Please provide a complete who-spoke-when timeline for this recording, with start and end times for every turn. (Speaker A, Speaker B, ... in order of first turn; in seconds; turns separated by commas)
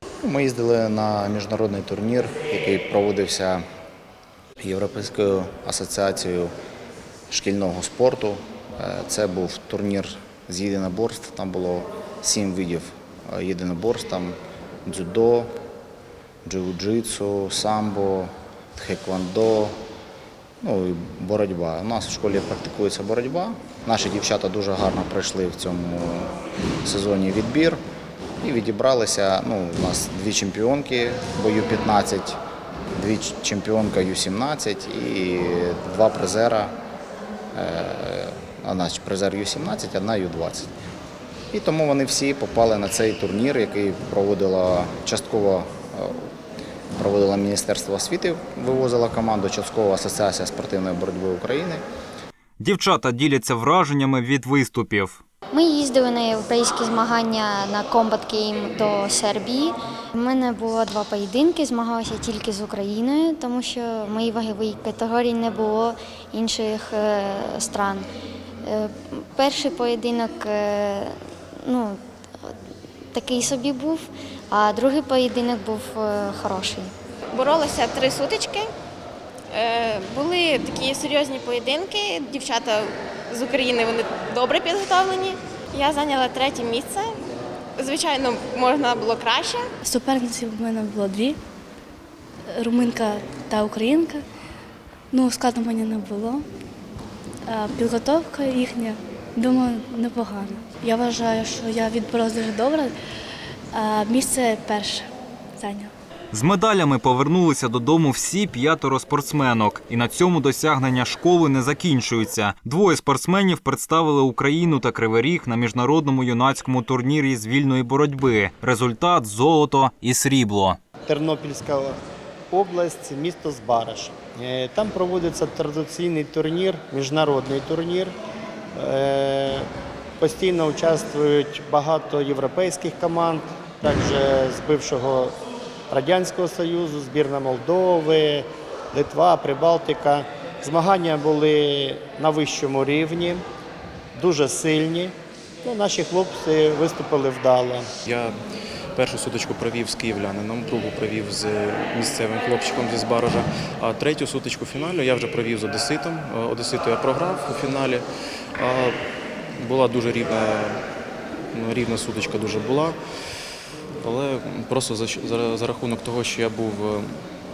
Speaker A: 0.2-3.6, Speaker A: 4.6-6.5, Speaker A: 7.3-15.5, Speaker A: 16.5-19.8, Speaker A: 20.6-26.3, Speaker A: 26.9-27.8, Speaker A: 28.4-32.4, Speaker A: 33.0-36.7, Speaker A: 37.5-40.7, Speaker A: 41.5-46.3, Speaker A: 47.0-51.8, Speaker B: 52.6-55.2, Speaker C: 55.5-68.1, Speaker C: 68.7-72.5, Speaker C: 73.1-76.9, Speaker D: 77.3-78.7, Speaker D: 79.5-87.1, Speaker D: 87.8-89.7, Speaker E: 89.8-91.4, Speaker E: 92.5-94.2, Speaker E: 95.1-96.4, Speaker E: 97.5-102.9, Speaker E: 103.7-105.9, Speaker B: 106.3-120.8, Speaker F: 121.1-122.0, Speaker F: 122.5-128.1, Speaker F: 128.8-129.7, Speaker F: 130.2-135.3, Speaker F: 135.9-143.4, Speaker F: 144.2-145.1, Speaker F: 145.7-147.9, Speaker G: 148.1-148.3, Speaker G: 148.9-158.1, Speaker G: 158.6-159.0, Speaker G: 159.6-160.8, Speaker G: 161.5-163.0, Speaker G: 164.0-167.1